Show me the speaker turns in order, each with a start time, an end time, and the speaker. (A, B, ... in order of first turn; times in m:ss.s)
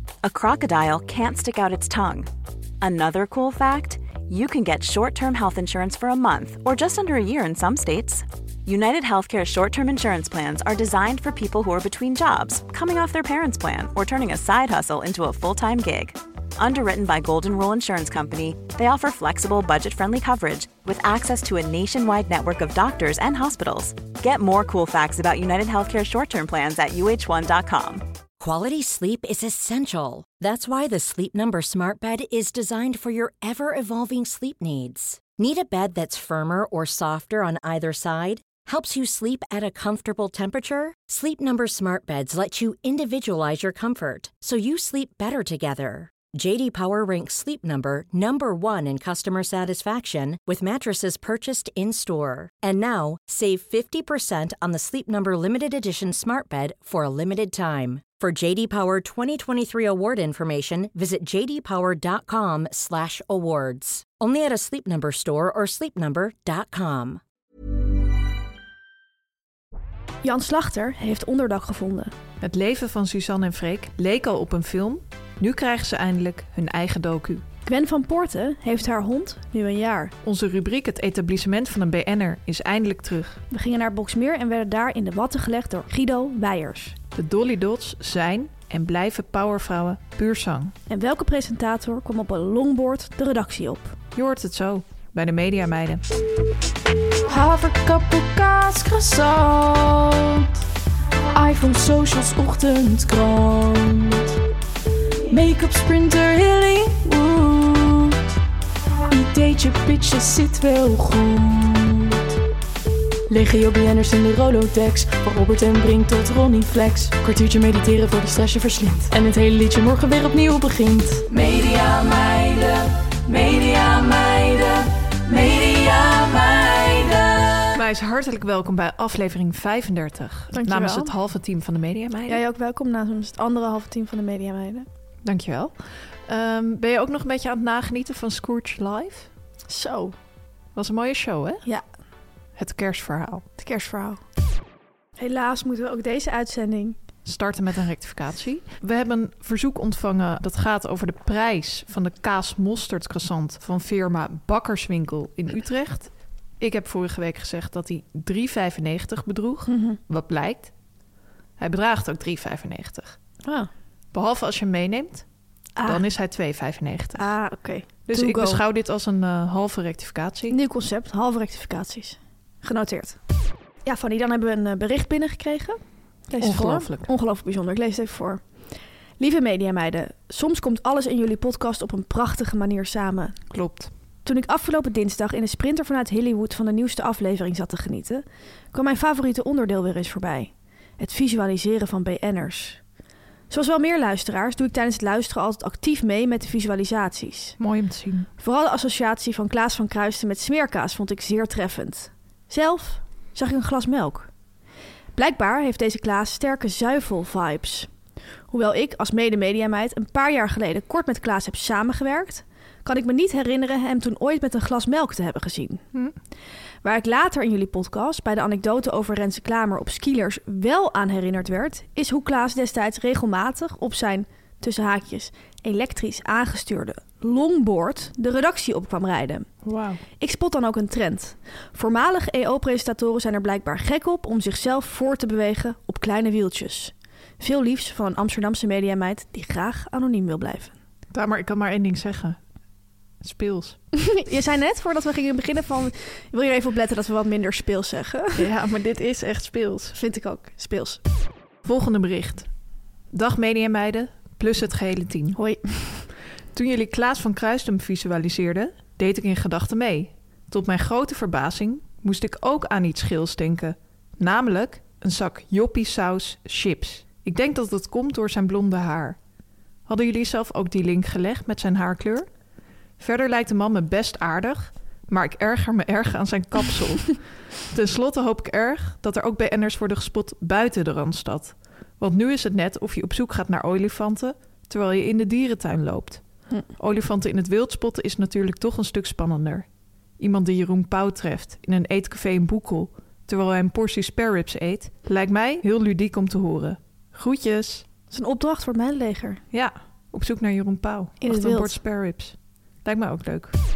0:00.2-0:02.3 A
0:02.8-0:28.0 A
0:28.4-1:07.2 B
1:10.2-1:12.1 C
1:12.4-1:17.4 D
1:17.6-1:20.1 C
1:20.2-1:23.4 D
1:23.5-1:27.0 C
1:27.1-1:30.7 D
1:30.9-1:34.0 C
1:34.1-1:36.0 D
1:37.2-1:40.5 E
1:41.3-1:44.4 E
1:45.3-1:48.2 E
1:49.1-1:52.3 E
1:53.3-2:07.7 E
2:07.7-2:12.4 D
2:10.5-2:11.1 C
2:12.3-2:14.9 C
2:15.2-2:19.3 D
2:19.7-2:20.2 C
2:20.7-2:21.6 D
2:22.6-2:23.4 D
2:23.6-2:24.2 C
2:25.2-2:27.0 C
2:27.2-2:40.7 D
2:39.7-2:40.0 C
2:41.6-2:43.2 D
2:43.4-2:43.7 C
2:44.1-2:45.2 D
2:45.8-2:46.0 C
2:45.8-2:47.3 D
2:47.2-2:48.6 C
2:48.1-2:50.6 D
2:50.5-2:53.2 C
2:53.8-2:58.4 C
2:56.4-2:57.1 D
2:59.2-3:03.4 C
3:03.5-3:03.9 D
3:04.2-3:12.8 C
3:13.5-3:17.6 C
3:17.6-3:18.3 D
3:18.4-3:24.3 C
3:25.1-3:27.9 C
3:28.5-3:35.8 C
3:36.8-3:49.5 C
3:49.6-3:50.0 D
3:50.2-4:00.7 C
4:01.1-4:02.4 D
4:03.2-4:03.8 D
4:03.9-4:08.5 C
4:08.3-4:10.0 D
4:09.9-4:11.0 C
4:11.6-4:12.5 D
4:13.1-4:15.4 D
4:15.4-4:16.1 C
4:16.5-4:29.2 D
4:29.9-4:32.3 D
4:33.0-4:46.2 D
4:46.8-4:49.6 D
4:50.2-4:57.8 D
4:58.1-4:59.4 C
4:59.5-5:03.5 D
5:01.2-5:01.8 C